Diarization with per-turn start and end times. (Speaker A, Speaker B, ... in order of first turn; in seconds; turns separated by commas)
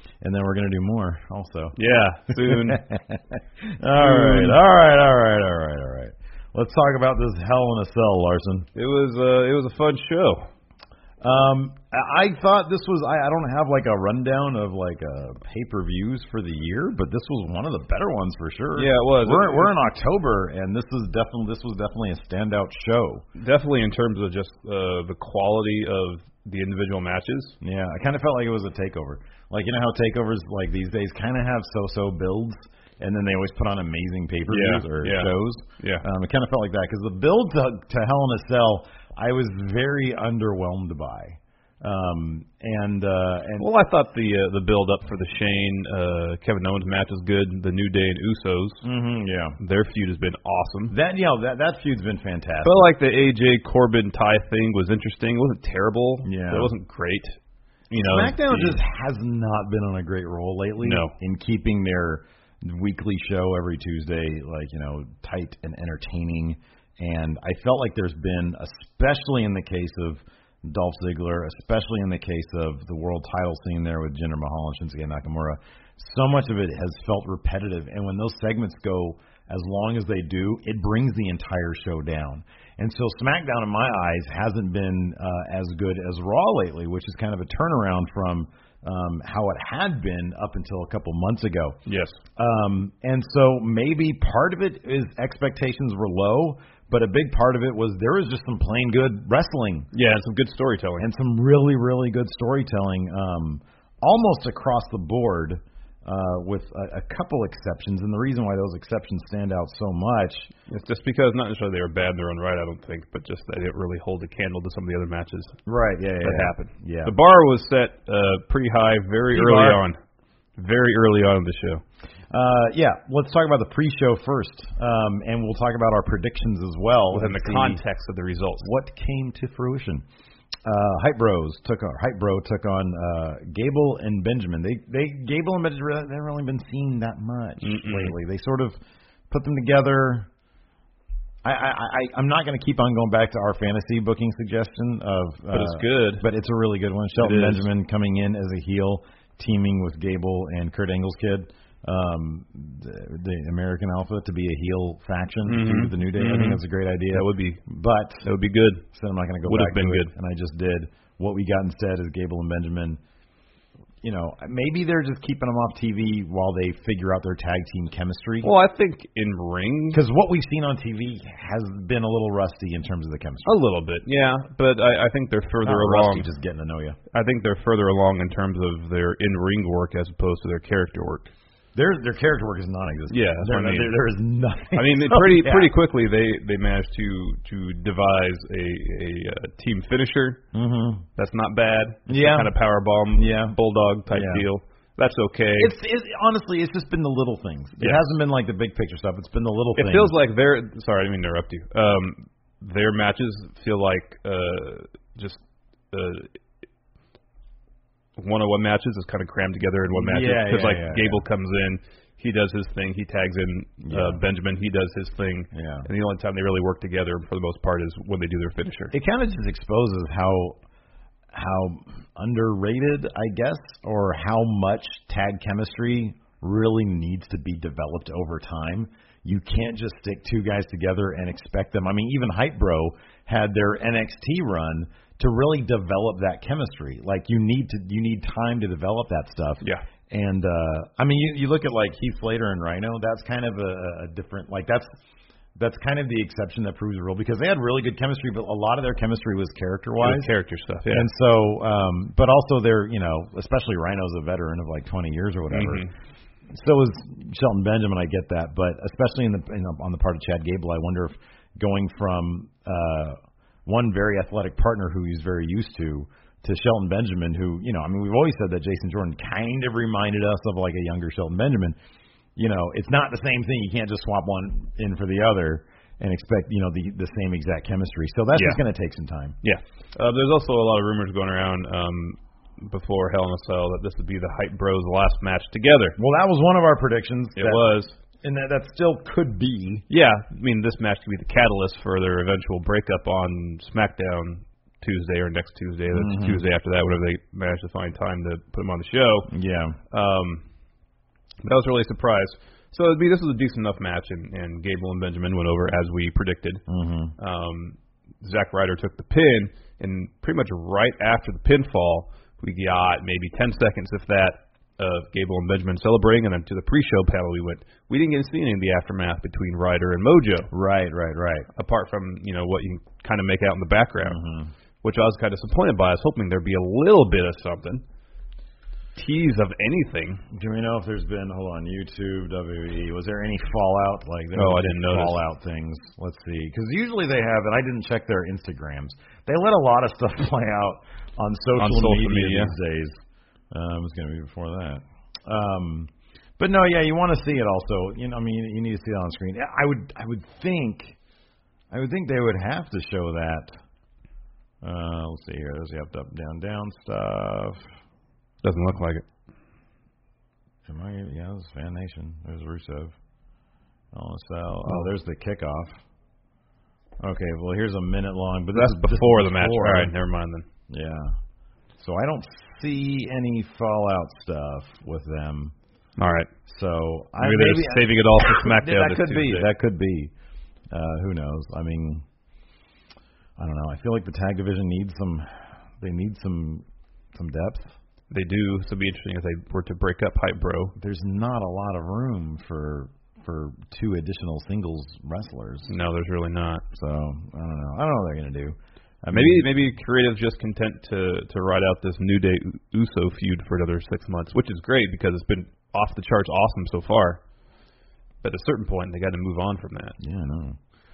Speaker A: 0.2-1.8, Speaker B: 1.8-2.8, Speaker A: 2.4-8.7, Speaker B: 3.9-4.6, Speaker B: 8.8-10.5, Speaker A: 11.2-23.3, Speaker B: 18.8-19.7, Speaker B: 23.4-27.6, Speaker A: 27.6-43.7, Speaker B: 34.5-36.0, Speaker B: 43.6-48.8, Speaker A: 48.8-49.6, Speaker B: 49.6-51.0, Speaker A: 50.9-52.9, Speaker B: 52.6-57.4, Speaker A: 56.2-56.7, Speaker B: 57.9-58.8, Speaker A: 57.9-91.8, Speaker B: 60.8-61.1, Speaker B: 91.9-92.2, Speaker A: 92.4-99.9, Speaker B: 99.9-101.1, Speaker A: 101.0-110.5, Speaker B: 110.7-115.6, Speaker A: 115.7-117.1, Speaker B: 116.2-120.0, Speaker A: 119.3-119.8, Speaker B: 120.6-121.8, Speaker A: 122.3-127.8, Speaker B: 127.1-128.7, Speaker A: 128.6-130.1, Speaker A: 130.6-138.8, Speaker B: 137.6-138.1, Speaker A: 139.3-140.3, Speaker A: 141.4-158.3, Speaker B: 145.5-146.2, Speaker B: 147.2-147.7, Speaker B: 155.5-157.6, Speaker B: 158.2-158.9, Speaker A: 158.9-163.0, Speaker B: 159.5-160.1, Speaker A: 164.0-168.5, Speaker B: 168.4-170.0, Speaker A: 169.9-173.6, Speaker B: 173.4-176.3, Speaker A: 175.6-177.0, Speaker B: 177.1-181.3, Speaker A: 181.8-185.7, Speaker B: 183.1-183.9, Speaker B: 184.7-190.4, Speaker A: 190.5-191.1, Speaker B: 191.2-195.7, Speaker A: 192.1-192.5, Speaker A: 193.2-193.6, Speaker A: 194.1-194.4, Speaker A: 195.6-200.2, Speaker B: 197.8-198.0, Speaker B: 199.8-205.4, Speaker B: 205.9-206.3, Speaker B: 208.2-218.9, Speaker A: 209.9-211.2, Speaker A: 213.9-214.2, Speaker A: 215.5-215.9, Speaker A: 218.9-220.6, Speaker A: 221.3-244.9, Speaker A: 245.6-250.3, Speaker B: 250.0-251.1, Speaker A: 250.9-255.9, Speaker B: 255.5-255.9, Speaker A: 256.5-271.8, Speaker A: 272.4-279.4, Speaker B: 279.4-286.0, Speaker A: 286.0-289.9, Speaker B: 287.4-288.0, Speaker B: 289.9-299.3, Speaker A: 295.9-296.4, Speaker A: 299.3-299.8, Speaker B: 299.9-300.4, Speaker B: 301.4-306.6, Speaker A: 306.7-307.1, Speaker B: 307.2-320.5, Speaker A: 320.5-321.5, Speaker B: 321.6-324.2, Speaker A: 324.1-324.5, Speaker B: 324.8-327.8, Speaker B: 328.9-330.2, Speaker A: 330.3-351.0, Speaker B: 334.4-335.2, Speaker B: 341.6-342.6, Speaker A: 351.7-353.5, Speaker A: 354.6-357.6, Speaker B: 358.4-359.0, Speaker A: 360.7-362.9, Speaker A: 363.9-365.8, Speaker A: 367.0-369.9, Speaker B: 368.5-370.4, Speaker A: 370.7-371.2, Speaker A: 371.8-375.5, Speaker B: 376.0-376.3, Speaker A: 376.5-380.1, Speaker B: 377.2-379.5, Speaker A: 380.7-382.0, Speaker A: 383.4-387.8, Speaker B: 388.1-390.7, Speaker A: 390.8-395.7, Speaker B: 395.7-396.6, Speaker A: 396.7-399.5, Speaker B: 399.1-407.2, Speaker B: 408.2-410.0, Speaker A: 410.0-410.6